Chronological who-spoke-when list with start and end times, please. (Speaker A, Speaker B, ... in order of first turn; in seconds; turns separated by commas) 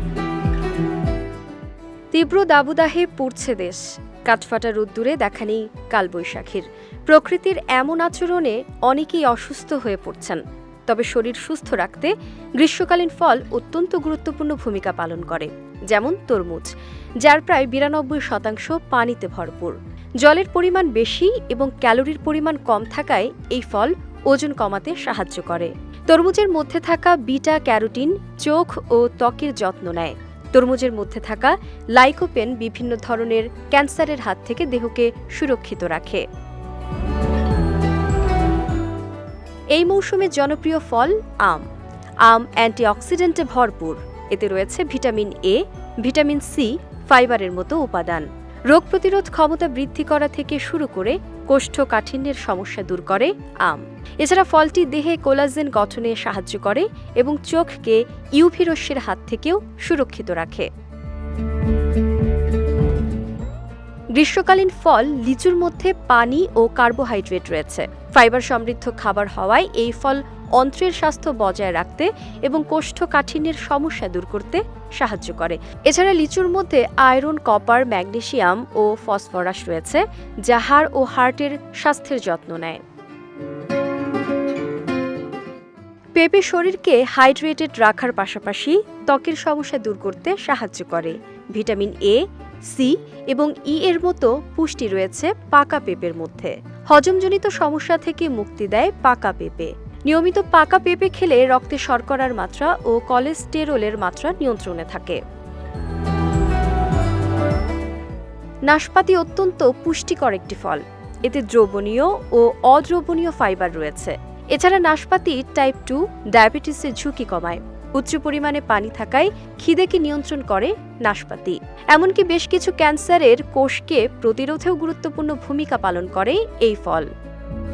Speaker A: 2.1-36.2, Speaker A: 39.7-41.6, Speaker A: 42.2-60.7, Speaker A: 64.2-82.8, Speaker A: 86.2-105.2, Speaker A: 108.7-127.1